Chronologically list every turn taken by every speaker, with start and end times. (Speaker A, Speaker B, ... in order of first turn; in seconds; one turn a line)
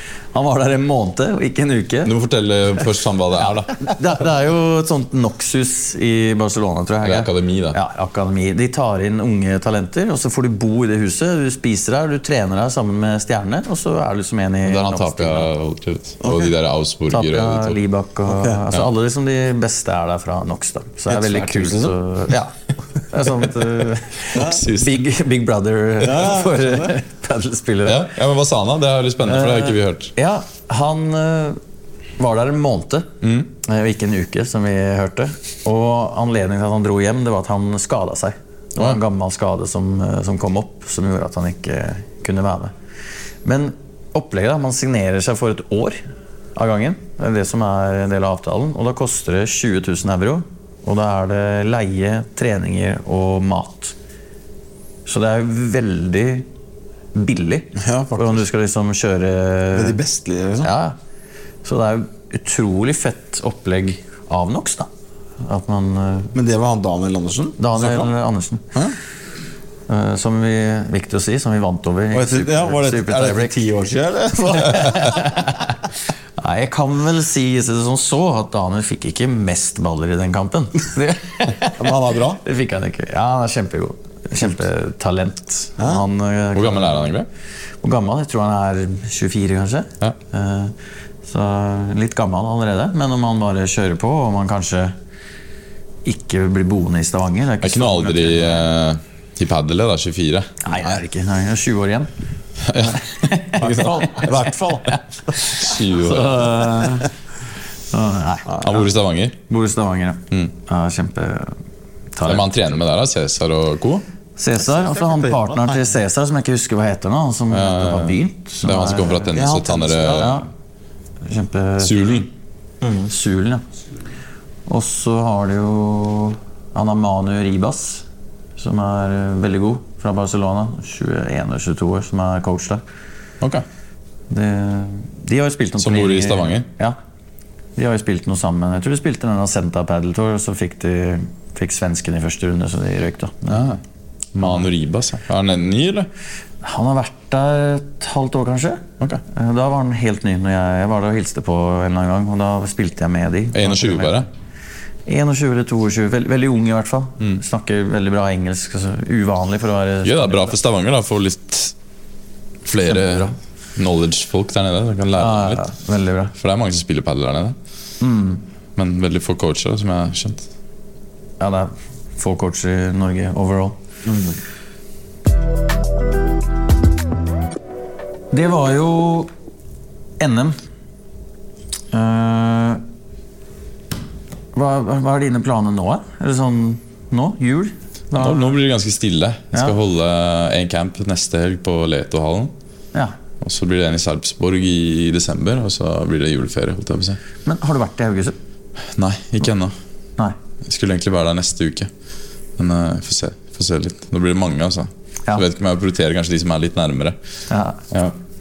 Speaker A: 0.3-2.1
Speaker B: 2.1-3.8
Speaker A: 3.4-15.5
Speaker B: 7.0-7.8
Speaker B: 14.7-17.8
Speaker C: 16.2-16.5
Speaker A: 17.1-28.1
Speaker C: 18.3-18.6
Speaker C: 21.1-21.9
Speaker C: 24.3-24.6
Speaker B: 24.3-25.0
Speaker C: 26.0-26.9
Speaker B: 27.9-30.1
Speaker A: 29.3-31.6
Speaker A: 32.2-42.7
Speaker B: 33.2-33.5
Speaker A: 43.5-46.0
Speaker A: 46.6-54.0
Speaker A: 55.1-56.5
Speaker A: 57.1-60.0
Speaker C: 57.8-58.4
Speaker C: 59.7-60.7
Speaker A: 60.6-61.0
Speaker A: 61.6-64.9
Speaker A: 65.4-66.3
Speaker C: 66.3-68.1
Speaker A: 67.6-68.8
Speaker A: 69.9-73.6
Speaker C: 72.1-75.3
Speaker A: 74.4-87.1
Speaker C: 81.8-82.4
Speaker C: 85.8-86.0
Speaker B: 86.5-87.3
Speaker A: 87.8-95.0
Speaker A: 96.0-98.6
Speaker B: 97.6-100.5
Speaker A: 100.6-102.1
Speaker B: 102.6-104.2
Speaker A: 102.9-104.3
Speaker C: 103.6-105.4
Speaker B: 105.5-106.8
Speaker A: 105.6-107.1
Speaker A: 107.9-108.6
Speaker C: 108.5-108.8
Speaker B: 108.6-109.4
Speaker A: 109.5-111.6
Speaker A: 112.2-112.5
Speaker B: 112.2-114.0
Speaker A: 114.4-119.4
Speaker C: 114.6-115.8
Speaker B: 117.5-120.4
Speaker C: 119.3-120.4
Speaker A: 120.1-120.5
Speaker A: 121.2-122.2
Speaker B: 121.8-122.3
Speaker C: 122.8-123.1
Speaker A: 123.0-123.6
Speaker A: 124.7-128.1
Speaker A: 128.6-132.8
Speaker A: 134.3-137.0
Speaker B: 135.8-136.7
Speaker A: 137.8-143.7
Speaker B: 143.5-143.8
Speaker A: 144.4-144.7
Speaker B: 144.4-146.1
Speaker A: 146.6-154.2
Speaker B: 153.5-154.3
Speaker A: 155.1-160.6
Speaker B: 160.0-161.7
Speaker B: 162.7-165.6
Speaker A: 162.8-163.3
Speaker A: 165.2-166.3
Speaker B: 166.4-167.6
Speaker A: 168.0-168.4
Speaker B: 168.8-170.5
Speaker A: 171.4-173.8
Speaker C: 174.1-174.4
Speaker A: 178.3-179.3
Speaker A: 180.2-180.6
Speaker A: 181.9-182.8
Speaker A: 184.5-188.6
Speaker B: 188.2-192.5
Speaker A: 189.5-189.8
Speaker B: 193.4-197.2
Speaker A: 197.4-198.4
Speaker B: 198.9-199.8
Speaker B: 200.7-201.9
Speaker B: 202.6-207.2
Speaker A: 207.5-207.8